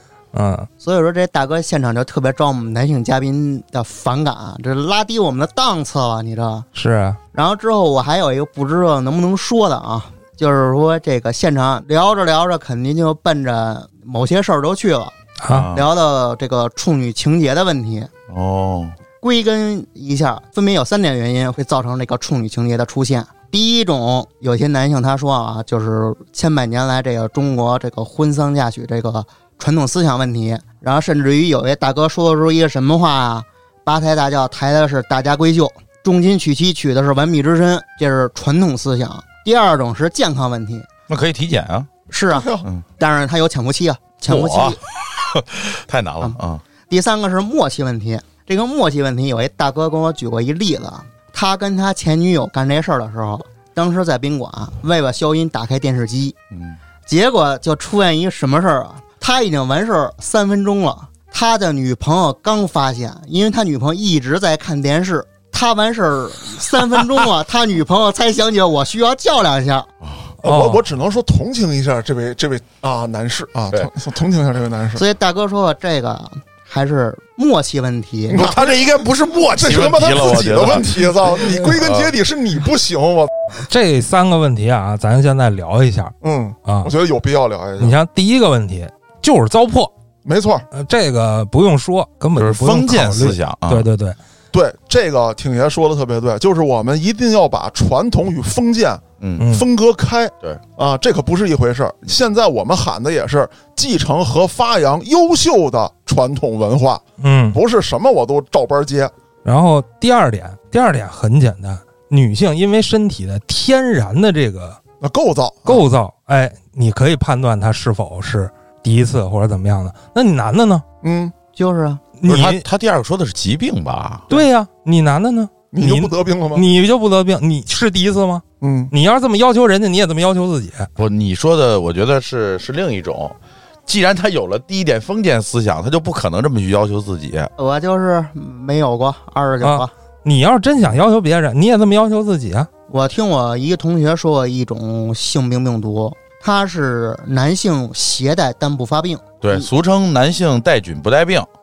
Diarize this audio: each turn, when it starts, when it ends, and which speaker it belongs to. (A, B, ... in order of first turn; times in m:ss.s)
0:00.3-0:00.7 A
0:00.8-0:06.7 B
0:06.8-0:07.2 A
0:07.3-0:15.1 B
0:15.4-0:15.7 A
0:15.5-0:15.8 C
0:15.7-0:18.1 B
0:18.3-0:19.0 C
0:19.2-0:40.9 B
0:41.1-0:41.9 C
0:42.1-0:44.8 B
0:42.3-0:42.7 D
0:44.3-0:46.6 C
0:46.9-0:56.4 B
0:56.5-0:56.8 C
0:57.1-1:09.9 B
1:10.0-1:10.3 C
1:10.4-1:15.0 D
1:10.4-1:10.8 A
1:15.0-1:18.4 B
1:18.3-1:18.8 D
1:18.3-1:22.1 C
1:19.5-1:23.3 D
1:23.6-1:26.1 A
1:26.2-1:28.0 D
1:26.7-1:26.9 A
1:27.8-1:29.9 A
1:30.2-1:30.7 D
1:30.7-1:34.2 A
1:32.4-1:33.9 C
1:34.5-1:49.1 D
1:39.4-1:39.7 A
1:47.2-1:47.6 A
1:49.4-1:54.8 A
1:55.0-1:55.8 D
1:55.7-2:00.8 A
2:01.0-2:01.3 D
2:01.6-2:02.0 B
2:02.2-2:02.6 A
2:02.3-2:04.3 C
2:04.3-2:10.9 A
2:05.7-2:06.6 D
2:08.6-2:08.9 D
2:11.0-2:13.4 C
2:13.9-2:17.5 C
2:17.6-2:19.9 B
2:19.6-2:22.7 A
2:22.9-2:29.7 B
2:29.4-2:31.5 C